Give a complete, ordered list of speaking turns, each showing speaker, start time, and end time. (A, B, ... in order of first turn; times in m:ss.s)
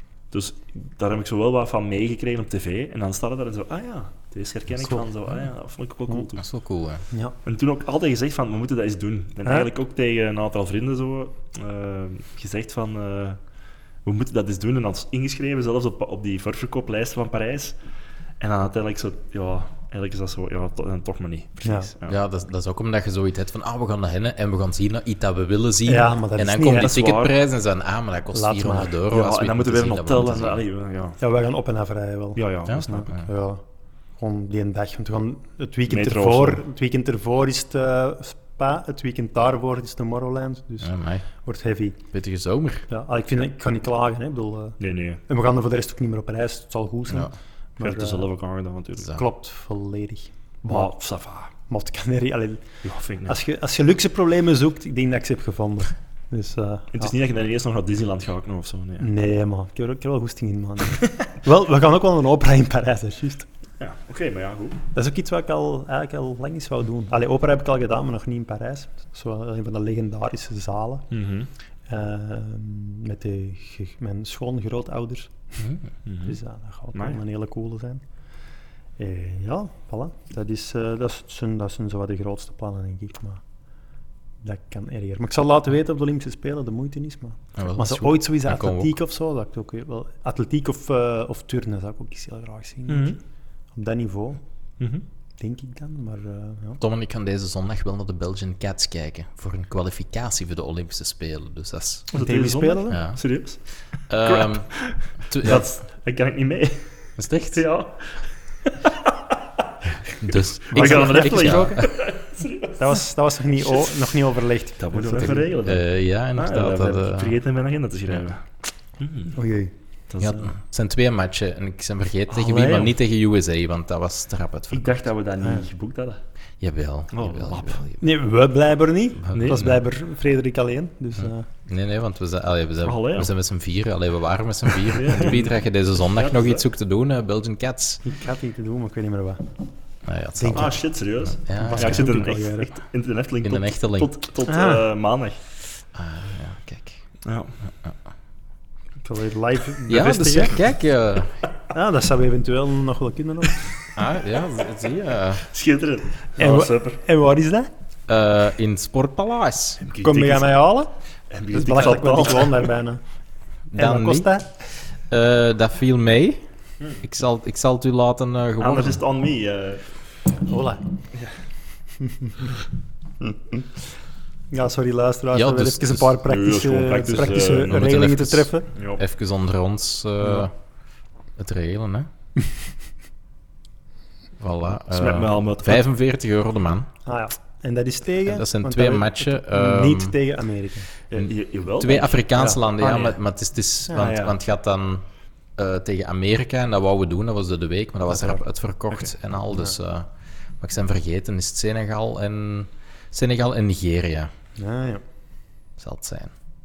0:00.3-0:06.5 A
0:06.4-0:07.0 B
0:07.4-0:13.4 A
0:14.0-0:17.8 A
0:18.4-0:22.2 A
0:21.6-0:21.9 C
0:22.1-0:30.6 B
0:25.9-0:26.9 C
0:26.7-0:27.3 A
0:28.3-0:29.0 C
0:29.1-0:31.2 A
0:31.2-0:33.6 C
0:32.4-0:33.1 A
0:32.7-0:33.2 B
0:34.2-0:42.0 C
0:35.9-0:36.6 A
0:40.8-0:41.2 B
0:42.1-0:42.9 B
0:42.9-0:48.3 C
0:44.8-0:45.2 A
0:47.8-0:49.2 A
0:49.1-0:50.9 C
0:50.6-0:51.5 A
0:51.7-0:52.6 C
0:52.8-0:53.3 A
0:53.3-0:57.1 C
0:56.9-0:59.1 A
0:59.0-1:03.5 C
1:03.8-1:04.8 A
1:04.9-1:11.1 C
1:11.1-1:11.5 A
1:11.9-1:15.4 C
1:16.0-1:16.4 A
1:16.2-1:18.0 C
1:16.9-1:17.2 A
1:19.0-1:23.4 C
1:24.4-1:33.2 C
1:27.6-1:28.9 B
1:32.9-1:33.2 A
1:33.7-1:34.4 C
1:35.4-1:36.8 C
1:36.8-1:42.1 B
1:42.1-1:43.0 C
1:42.1-1:43.6 A
1:42.9-1:43.2 B
1:44.1-1:44.7 B
1:44.1-1:49.1 A
1:45.3-1:45.7 B
1:47.2-1:47.6 B
1:50.2-1:51.9 B
1:50.2-1:53.0 A
1:50.7-1:51.9 C
1:52.8-1:55.5 C
1:54.8-1:58.4 A
1:55.6-1:57.4 B
1:59.0-1:59.4 A
1:59.3-1:59.7 C
2:00.1-2:00.5 A
2:00.2-2:04.9 B
2:02.3-2:02.9 A
2:04.7-2:06.2 A
2:06.6-2:08.0 B
2:07.1-2:07.9 A
2:08.0-2:11.5 C
2:09.3-2:09.8 B
2:09.3-2:09.7 A
2:11.7-2:18.0 B
2:12.8-2:13.3 A
2:14.8-2:16.6 A
2:18.0-2:19.5 C
2:20.0-2:20.8 B
2:20.4-2:20.7 C
2:20.5-2:25.4 A
2:21.4-2:22.2 B
2:21.5-2:22.7 C
2:23.4-2:24.1 B
2:24.5-2:24.8 C
2:25.9-2:27.0 B
2:27.2-2:27.5 A
2:29.0-2:30.6 C
2:29.9-2:31.3 B
2:31.7-2:33.7 C
2:34.0-2:35.4 B
2:35.5-2:37.0 A
2:36.4-2:37.7 C
2:38.1-2:39.8 B
2:39.8-2:40.6 A
2:40.0-2:40.9 C
2:41.3-2:42.7 A
2:41.5-2:43.0 C
2:43.7-2:44.4 B
2:43.8-2:44.5 C
2:45.1-2:46.4 B
2:47.0-2:49.0 B
2:48.6-2:49.8 A
2:50.5-2:50.8 C
2:52.0-2:52.5 C
2:54.5-2:58.7 C
2:55.3-2:56.2 B
2:56.2-2:57.8 A
2:57.5-3:00.5 B
2:58.8-2:59.0 A
3:01.4-3:02.1 B
3:04.4-3:06.9 B
3:04.9-3:05.8 A
3:07.0-3:10.9 C
3:08.2-3:10.2 B
3:11.1-3:13.2 A
3:11.2-3:15.0 B
3:12.4-3:13.0 C
3:13.9-3:14.4 A
3:15.6-3:24.3 B
3:24.6-3:25.0 C
3:25.8-3:26.3 B